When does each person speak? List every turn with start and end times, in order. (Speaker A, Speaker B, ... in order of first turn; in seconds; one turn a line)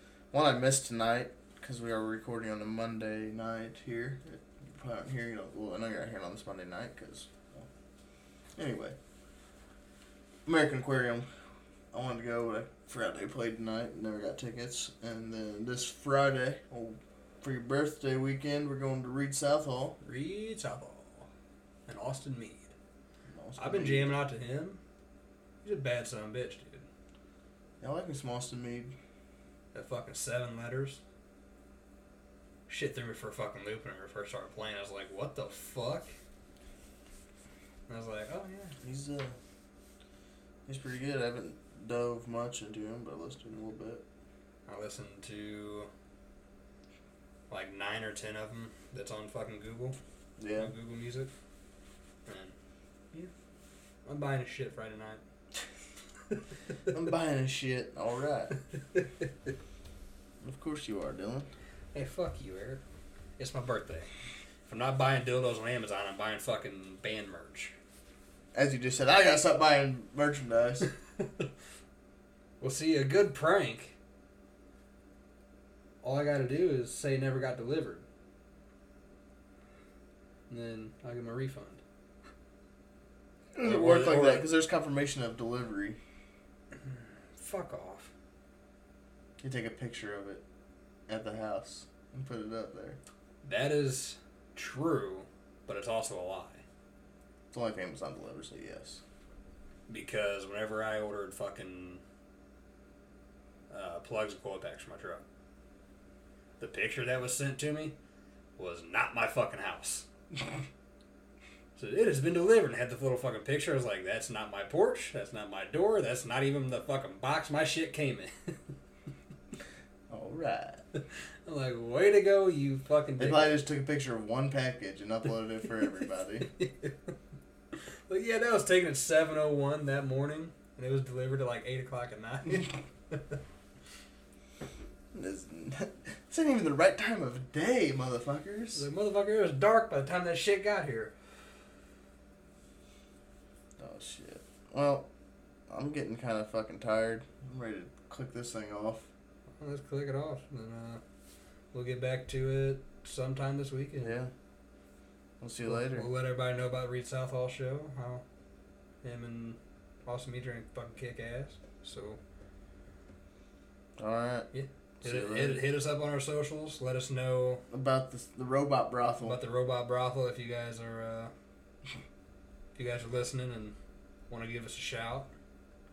Speaker A: 0.3-7.7
Speaker A: 8.6-9.0
Speaker A: 10.5-11.3
Speaker A: 11.9-20.0
Speaker B: 20.0-21.3
Speaker B: 21.9-22.7
Speaker A: 23.3-24.1
Speaker B: 23.6-24.8
Speaker B: 25.6-26.9
Speaker A: 27.8-28.9
Speaker B: 29.7-31.0
Speaker B: 32.7-36.1
Speaker B: 37.9-38.8
Speaker A: 38.8-39.4
Speaker A: 40.7-44.0
Speaker B: 44.7-45.9
Speaker B: 47.5-50.0
Speaker A: 50.4-50.7
Speaker B: 50.6-51.3
Speaker B: 52.3-52.5
Speaker B: 54.0-55.2
Speaker A: 56.9-58.5
Speaker A: 60.4-61.5
Speaker B: 61.9-62.8
Speaker B: 63.4-64.1
Speaker B: 64.7-67.7
Speaker A: 68.5-70.9
Speaker B: 72.6-74.0
Speaker B: 76.0-78.0
Speaker B: 80.5-81.8
Speaker A: 83.5-86.0
Speaker B: 83.6-84.5
Speaker B: 86.8-88.1
Speaker A: 89.4-90.4
Speaker A: 91.1-93.0
Speaker B: 93.4-96.6
Speaker A: 97.5-99.0
Speaker B: 99.9-102.0
Speaker B: 103.7-105.2
Speaker B: 106.6-108.0
Speaker B: 108.6-110.1
Speaker B: 111.8-118.3
Speaker A: 120.1-120.8
Speaker B: 121.5-123.6
Speaker A: 123.2-126.5
Speaker B: 126.5-126.9
Speaker B: 128.1-133.4
Speaker A: 135.1-138.9
Speaker B: 138.8-141.1
Speaker A: 143.8-145.1
Speaker A: 145.7-149.1
Speaker B: 149.6-151.0
Speaker B: 151.7-154.2
Speaker A: 154.0-154.3
Speaker A: 155.4-156.1
Speaker B: 155.7-158.2
Speaker B: 159.0-162.2
Speaker A: 164.0-164.5
Speaker B: 164.5-167.6
Speaker A: 165.0-165.6
Speaker A: 167.7-169.4
Speaker B: 169.2-171.3
Speaker B: 172.8-173.8
Speaker B: 174.3-175.3